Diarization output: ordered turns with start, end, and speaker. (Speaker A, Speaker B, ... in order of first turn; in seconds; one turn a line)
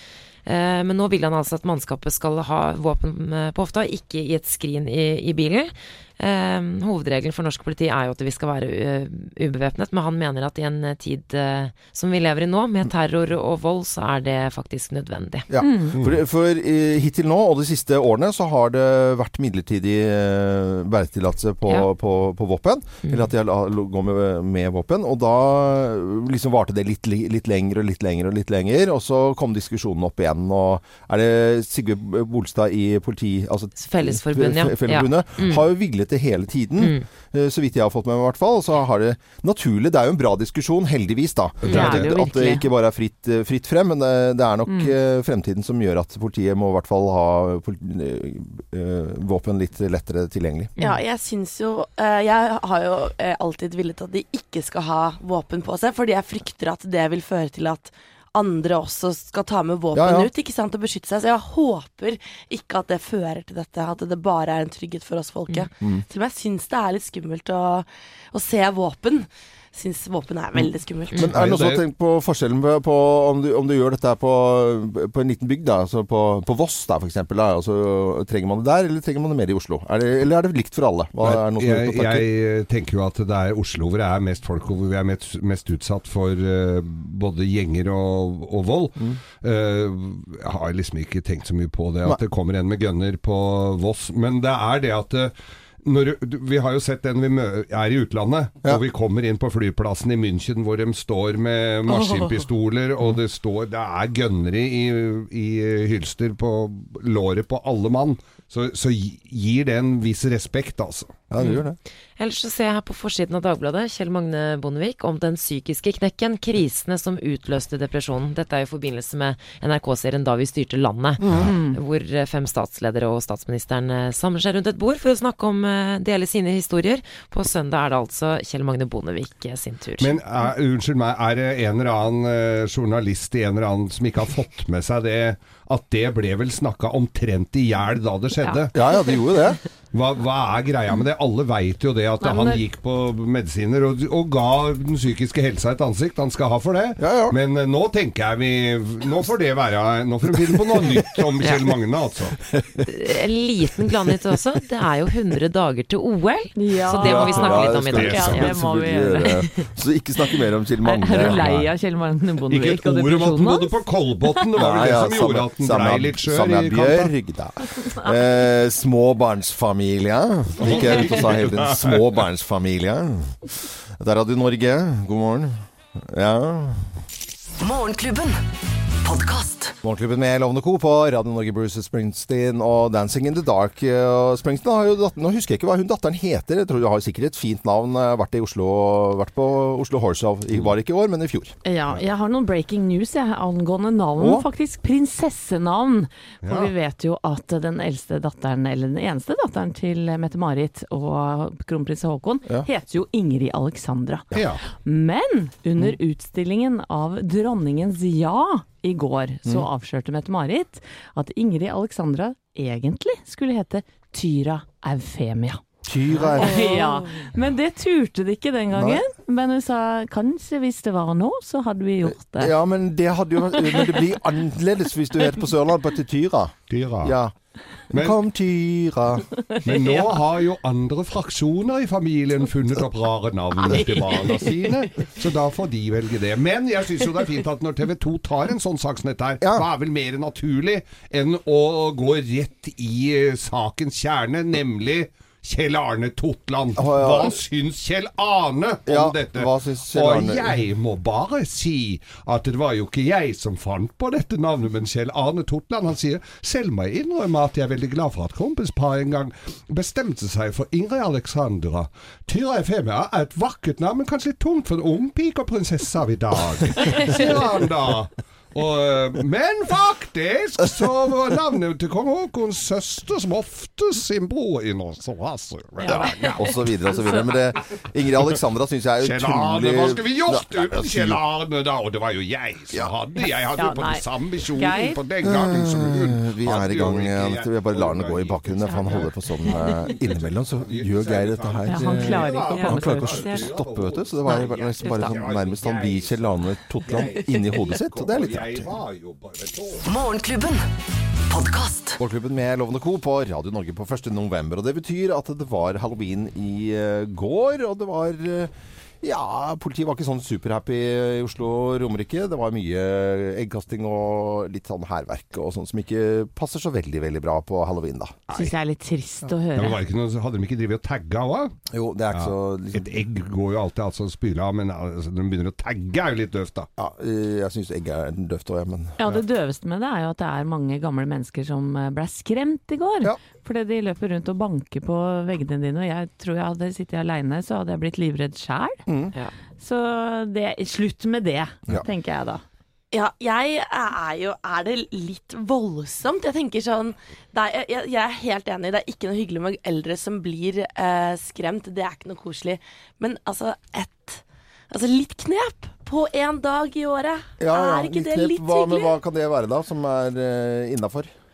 Speaker A: 0.5-15.5
Speaker B: 15.5-50.7
Speaker C: 15.6-16.0
Speaker A: 33.8-35.7
Speaker A: 36.8-37.1
Speaker D: 41.6-42.1
Speaker C: 41.7-42.7
Speaker C: 44.7-44.9
Speaker E: 50.8-71.3
Speaker B: 59.9-60.3
Speaker B: 71.2-82.3
Speaker D: 71.3-71.8
Speaker D: 81.2-111.2
Speaker E: 101.9-102.3
Speaker B: 111.3-111.8
Speaker A: 111.4-111.7
Speaker A: 112.2-130.2
Speaker B: 121.2-121.5
Speaker C: 121.4-121.8
Speaker D: 130.0-138.7
Speaker B: 138.7-139.6
Speaker D: 139.9-152.4
Speaker C: 142.2-142.6
Speaker B: 147.0-147.4
Speaker A: 151.4-151.7
Speaker B: 152.5-152.9
Speaker A: 152.8-158.5
Speaker C: 156.6-159.7
Speaker B: 157.0-161.5
Speaker D: 157.3-158.5
Speaker C: 160.8-163.8
Speaker D: 161.2-161.7
Speaker D: 162.5-167.1
Speaker B: 164.6-173.4
Speaker D: 170.6-172.1
Speaker B: 174.0-176.9
Speaker F: 177.6-178.4
Speaker F: 179.0-179.8
Speaker B: 179.8-191.6
Speaker C: 191.7-222.6
Speaker B: 194.2-194.4
Speaker D: 196.4-196.7
Speaker D: 204.3-204.6
Speaker B: 215.9-216.7
Speaker E: 216.4-217.3
Speaker B: 218.7-219.0
Speaker B: 222.1-227.3
Speaker D: 226.7-227.2
Speaker D: 227.9-228.2
Speaker B: 227.9-229.3
Speaker D: 229.6-276.4
Speaker C: 229.7-230.2
Speaker C: 233.7-234.4
Speaker B: 233.7-234.4
Speaker B: 239.4-239.7
Speaker B: 246.8-247.4
Speaker B: 248.9-250.5
Speaker C: 275.8-277.2
Speaker B: 275.9-281.2
Speaker D: 279.0-299.9
Speaker C: 283.5-285.0
Speaker B: 285.2-298.7
Speaker C: 291.7-293.4
Speaker A: 294.3-295.2
Speaker F: 299.9-300.7
Speaker F: 301.3-302.0
Speaker B: 302.0-308.5
Speaker B: 309.0-318.2
Speaker C: 318.3-319.8
Speaker D: 319.5-321.6
Speaker B: 321.7-322.9
Speaker D: 322.2-326.7
Speaker B: 326.8-329.0
Speaker C: 329.0-338.8
Speaker B: 338.9-339.1
Speaker C: 339.6-342.4
Speaker E: 342.9-359.0
Speaker B: 357.4-361.1